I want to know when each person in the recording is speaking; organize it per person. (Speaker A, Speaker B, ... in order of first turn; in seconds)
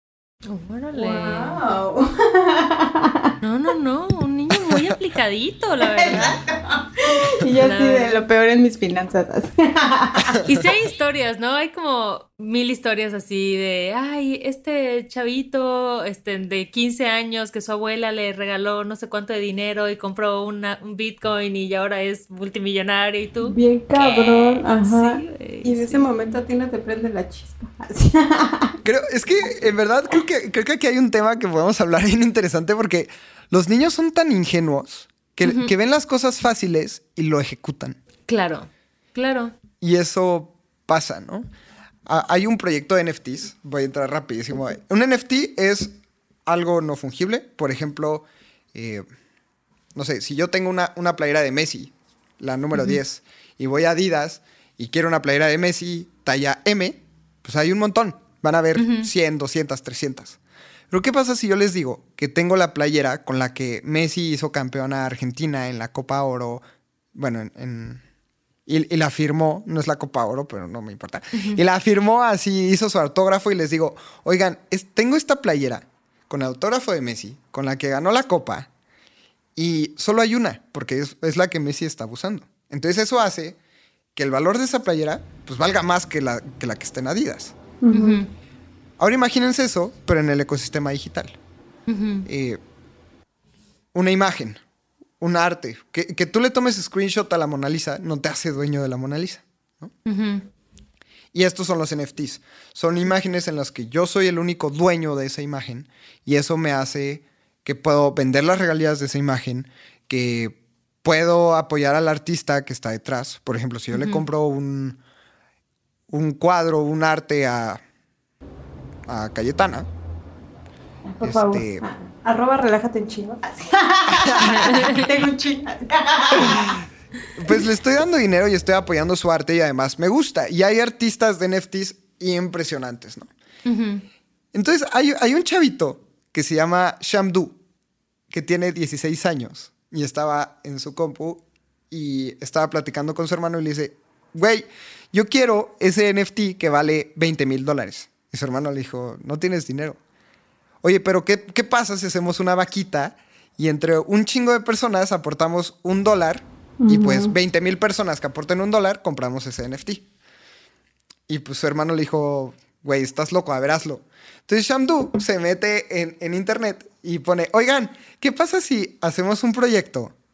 Speaker A: 0.5-1.6, 3.4-6.3, 7.6-8.2, 10.4-26.0, 35.4-35.7, 38.3-39.5, 52.7-53.0, 58.8-59.1, 71.3-71.6, 87.9-88.3, 91.9-92.3, 100.0-100.5, 113.9-114.2, 124.6-125.0, 133.7-134.1
Speaker B: 0.9-3.3, 5.8-10.4, 23.4-28.8, 87.8-88.2, 121.0-126.8, 156.8-157.3
Speaker C: 28.8-38.0, 39.8-41.5, 42.1-45.9, 46.5-49.0, 50.0-60.4, 60.9-66.6, 67.2-68.0, 68.7-78.7, 79.6-83.6, 84.2-87.6, 89.0-91.4, 92.3-92.6, 93.9-94.6, 95.2-99.9, 101.3-115.0, 116.1-117.8, 119.1-119.9, 121.2-121.8, 124.1-124.8, 126.4-126.7, 127.4-133.3, 134.5-137.6, 138.3-150.0, 150.8-160.1, 161.3-170.1